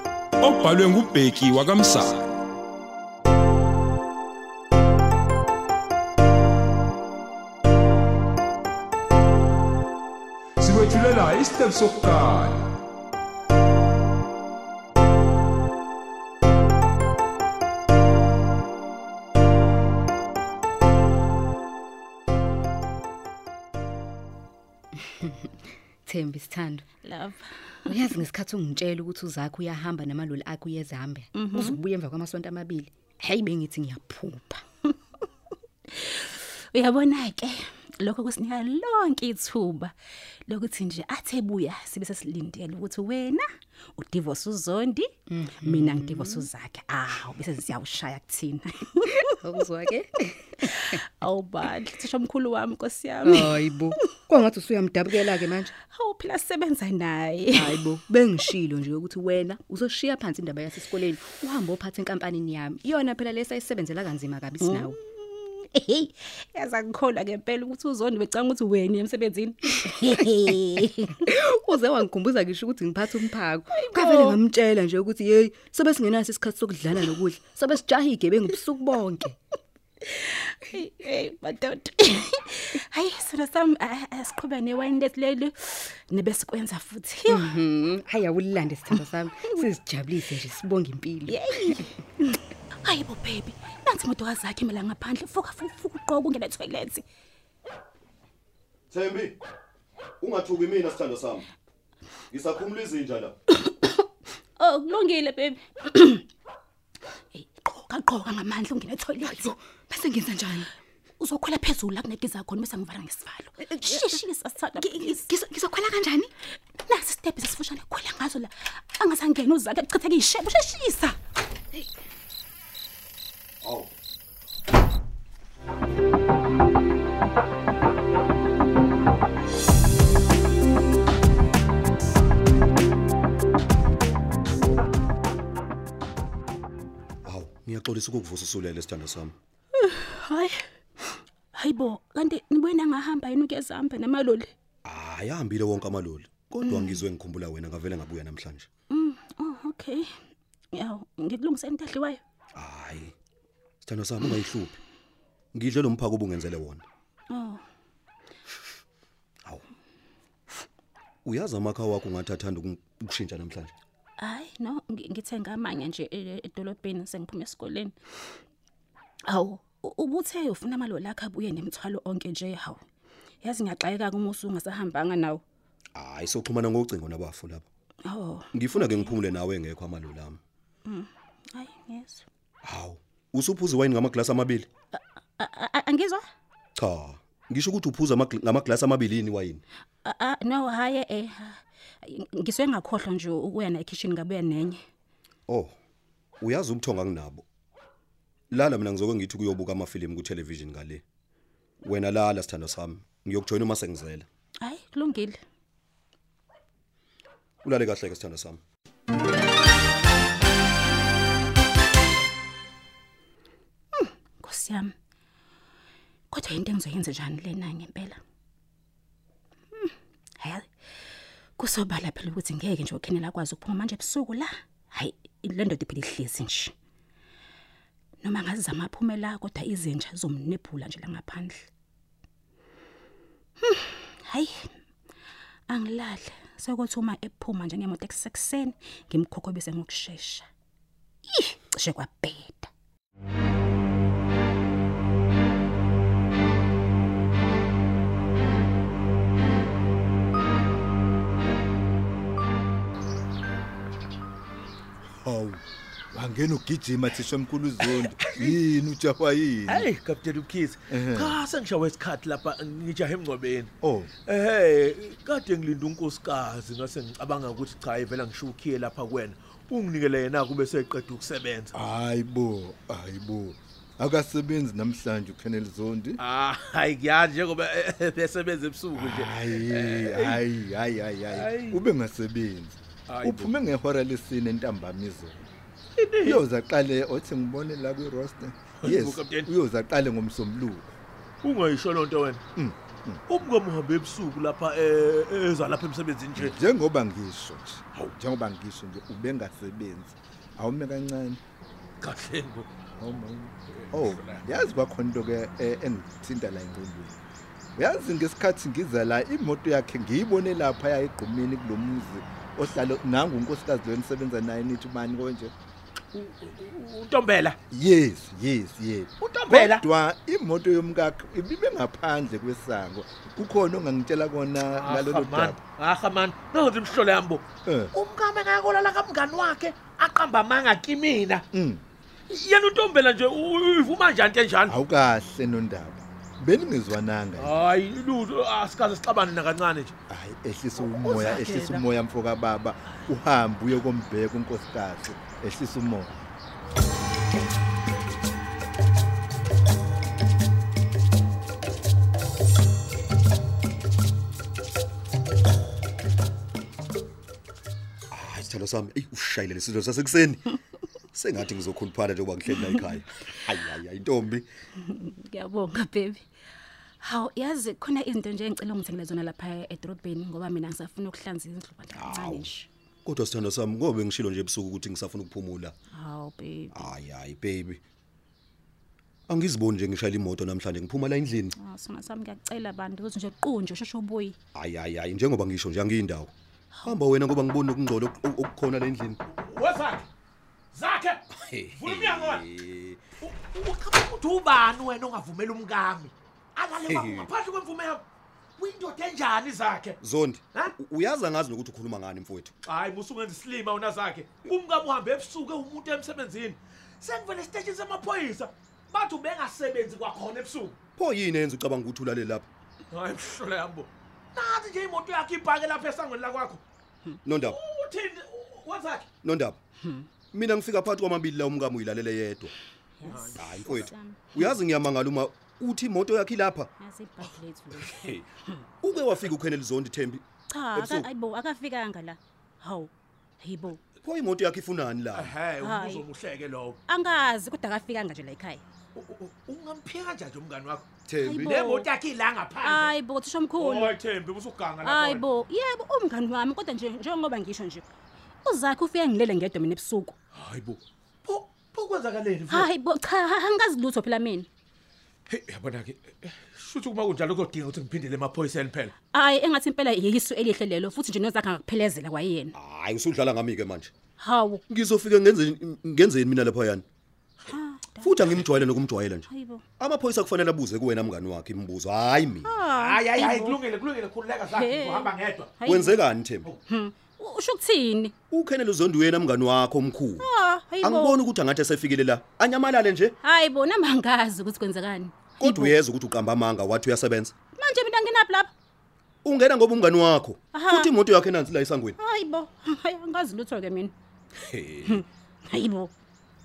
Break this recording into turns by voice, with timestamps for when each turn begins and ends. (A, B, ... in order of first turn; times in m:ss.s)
0:00.4-0:02.4 A
0:10.6-0:12.7 A
0:25.2-0:26.8 B
0:27.0-0:27.9 C
0:27.9-0:34.6 B
0:31.4-0:31.8 C
0:35.9-0:39.9 C
0:40.5-0:43.4 C
0:44.0-0:49.3 C
0:45.3-0:46.5 B
0:49.3-0:51.0 B
0:50.7-0:53.6 C
0:53.2-0:55.7 B
0:55.9-0:57.8 C
0:57.5-1:05.0 B
1:04.6-1:11.3 C
1:11.2-1:19.4 B
1:13.7-1:14.4 C
1:20.1-1:27.4 C
1:27.3-1:31.9 B
1:31.3-1:37.0 C
1:38.9-1:39.4 D
1:40.2-1:41.5 D
1:42.3-1:43.3 D
1:43.6-1:44.0 C
1:44.6-1:46.2 C
1:47.3-1:49.5 C
1:49.2-1:50.7 B
1:51.2-1:55.3 C
1:53.7-1:54.2 B
1:54.8-1:56.3 B
1:56.8-2:01.2 C
2:03.6-2:03.9 D
2:17.2-2:19.4 D
2:19.8-2:20.6 C
2:21.5-2:24.5 C
2:24.8-2:28.7 D
2:26.6-2:27.0 C
2:28.9-2:30.1 C
2:30.7-2:32.2 C
2:32.6-2:33.1 D
2:33.8-2:34.8 D
2:35.5-2:36.8 D
2:37.3-2:37.6 C
2:41.2-2:43.7 D
2:44.2-2:48.0 C
2:49.3-2:52.8 C
2:53.4-2:55.4 C
2:56.0-2:57.7 D
2:58.0-2:59.2 C
2:58.5-3:00.4 D
3:00.9-3:02.2 C
3:02.6-3:04.7 D
3:04.9-3:06.2 C
3:06.8-3:09.6 D
3:10.0-3:14.8 C
3:15.5-3:15.8 D
3:16.4-3:17.4 D
3:18.5-3:21.0 D
3:21.8-3:24.3 D
3:24.6-3:25.4 C
3:27.6-3:28.6 D
3:33.9-3:34.9 C
3:36.3-3:38.2 C
3:39.8-3:40.7 C
3:41.6-3:46.7 C
3:48.2-3:51.7 C
3:53.6-3:54.7 C
3:55.7-4:00.5 C
4:01.3-4:02.7 C
4:15.2-4:19.9 E
4:17.8-4:18.6 F
4:19.7-4:23.7 F
4:20.9-4:21.4 E
4:23.8-4:24.1 E
4:24.3-4:31.7 F
4:31.7-4:36.2 E
4:36.2-4:40.4 F
4:39.0-4:45.5 E
4:41.3-4:41.8 F
4:43.1-4:43.5 F
4:46.0-4:46.4 F
4:46.2-4:50.9 E
4:48.8-4:49.5 F
4:51.4-4:52.4 F
4:52.6-4:53.2 E
4:53.3-4:56.6 F
4:56.4-5:01.4 E
5:02.0-5:02.7 F
5:03.0-5:07.2 E
5:03.7-5:04.4 F
5:07.8-5:15.5 E
5:16.1-5:17.6 F
5:17.7-5:25.6 E
5:19.2-5:19.9 F
5:24.8-5:31.4 F
5:27.6-5:27.9 E
5:31.5-5:31.8 E
5:32.3-5:34.8 F
5:34.7-5:37.6 E
5:37.4-5:39.9 F
5:40.1-5:46.1 E
5:40.9-5:41.8 F
5:58.1-6:00.4 D
6:01.1-6:04.5 D
6:04.8-6:06.2 C
6:07.0-6:12.7 C
6:12.0-6:12.5 D
6:13.0-6:15.7 D
6:15.9-6:16.9 C
6:16.7-6:17.8 D
6:19.3-6:21.5 D
6:21.6-6:24.4 C
6:24.6-6:26.3 D
6:26.8-6:29.2 D
6:29.3-6:30.1 F
6:30.7-6:31.2 F
6:31.4-6:33.0 D
6:31.8-6:32.5 F
6:33.2-6:38.0 F
6:36.9-6:37.2 D
6:38.6-6:40.0 F
6:40.0-6:42.5 D
6:42.6-6:50.8 F
6:51.0-6:52.5 D
6:52.9-6:56.6 F
6:57.2-6:57.6 D
6:57.4-6:59.1 F
6:59.2-6:59.6 D
6:59.8-7:00.1 C
7:00.3-7:02.5 D
7:03.0-7:04.5 C
7:03.0-7:03.8 F
7:03.4-7:06.7 D
7:06.8-7:08.6 C
7:07.8-7:08.2 D
7:08.8-7:10.2 D
7:10.5-7:13.8 C
7:10.8-7:11.1 D
7:14.0-7:15.2 D
7:15.1-7:16.8 F
7:15.6-7:16.1 C
7:16.9-7:18.6 C
7:19.0-7:20.9 F
7:21.1-7:21.4 D
7:21.2-7:21.9 C
7:21.4-7:22.9 F
7:22.6-7:24.0 C
7:23.6-7:25.3 F
7:24.8-7:27.9 C
7:28.4-7:30.2 C
7:30.3-7:32.7 F
7:32.5-7:34.5 C
7:35.3-7:38.9 F
7:39.1-7:42.6 C
7:42.6-7:43.9 D
7:44.2-7:44.6 C
7:44.7-7:46.8 D
7:47.5-7:48.1 C
7:48.0-7:49.2 D
7:48.2-7:48.6 F
7:49.3-7:49.6 C
7:49.8-7:52.5 D
7:52.4-7:53.6 C
7:52.6-7:55.6 F
7:54.5-7:56.0 C
7:55.7-7:56.5 D
7:56.7-7:58.1 C
7:58.3-8:00.2 D
8:00.2-8:01.3 C
8:00.8-8:03.2 D
8:03.2-8:05.8 C
8:05.4-8:07.3 D
8:07.6-8:08.5 C
8:09.2-8:12.0 D
8:10.5-8:10.9 C
8:12.0-8:13.9 C
8:14.4-8:15.0 D
8:14.8-8:15.9 C